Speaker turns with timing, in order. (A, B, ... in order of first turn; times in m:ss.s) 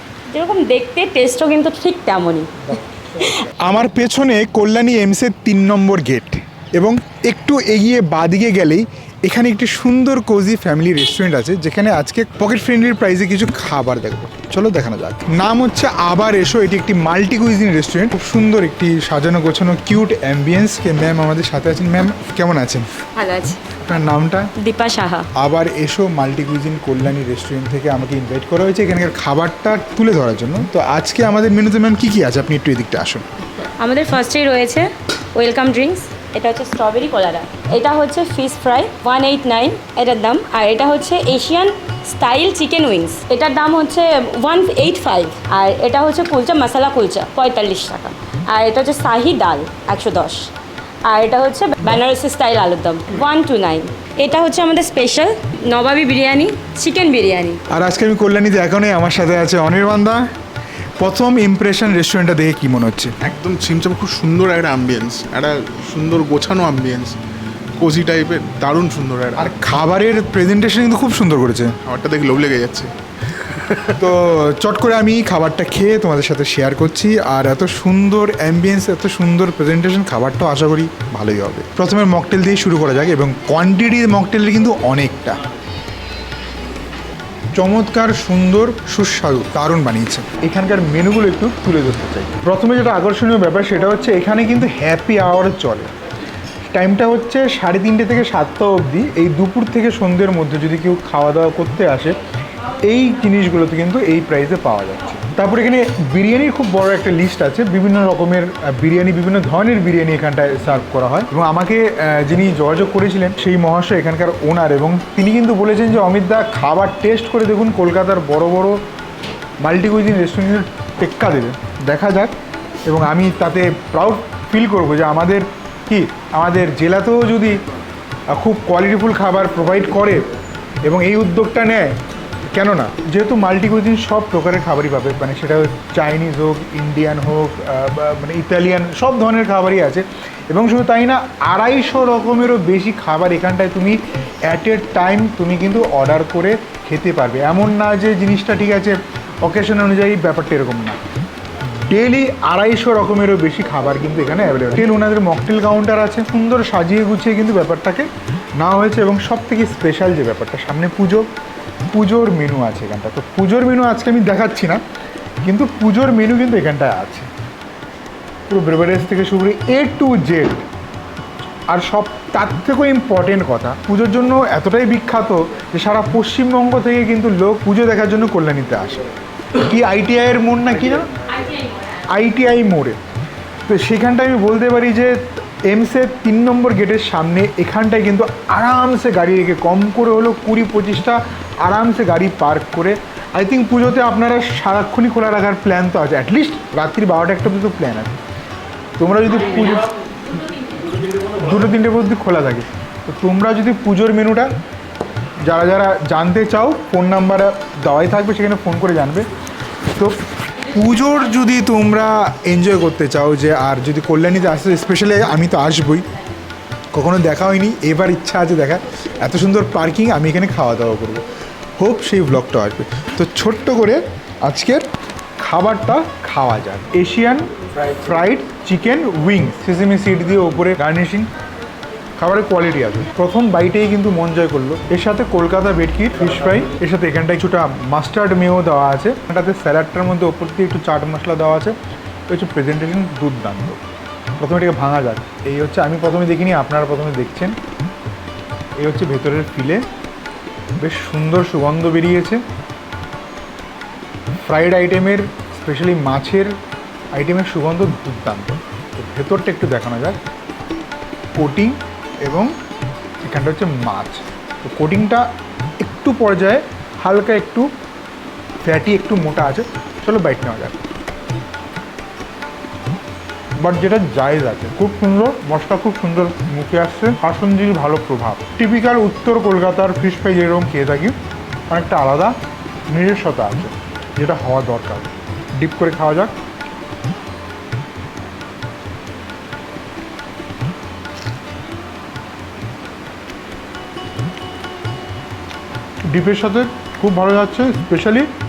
0:00.3-0:02.6 A
0:02.7-0:22.9 B
0:23.2-0:23.6 A
0:23.8-0:24.5 B
0:24.6-0:25.3 A
0:25.4-0:33.2 B
0:33.6-0:50.5 A
0:51.1-0:57.6 A
0:57.7-1:00.2 B
1:01.0-1:03.1 B
1:03.2-1:07.2 C
1:07.8-1:09.5 C
1:09.4-1:11.7 B
1:11.8-1:14.0 C
1:14.0-1:25.4 B
1:27.6-1:35.9 B
1:36.7-1:42.2 B
1:42.9-1:58.8 B
1:59.6-2:02.3 B
2:02.9-2:07.6 B
2:08.3-2:10.2 B
2:10.8-2:12.0 B
2:12.6-2:31.0 B
2:31.7-2:41.3 B
2:41.9-2:44.8 B
2:45.4-2:47.3 B
2:48.5-2:50.7 B
2:51.7-2:59.0 B
2:59.6-3:01.1 B
3:01.4-3:01.9 A
3:02.1-3:03.0 B
3:03.7-3:18.2 B
3:19.0-3:20.2 B
3:21.2-3:24.5 B
3:25.4-3:29.3 B
3:29.9-3:36.1 B
3:36.9-3:41.2 B
3:41.8-3:44.9 B
3:45.4-3:51.3 B
3:52.2-4:01.8 B
4:02.3-4:03.8 B
4:04.4-4:07.6 B
4:08.8-4:09.8 B
4:10.8-4:12.4 B
4:14.4-4:16.5 B
4:17.2-4:20.2 B
4:21.4-4:22.5 B
4:23.2-4:25.3 B
4:25.8-4:27.7 B
4:28.6-4:30.8 B
4:33.6-4:41.2 B
4:41.7-4:42.4 B
4:42.9-4:46.3 B
4:56.1-4:58.3 B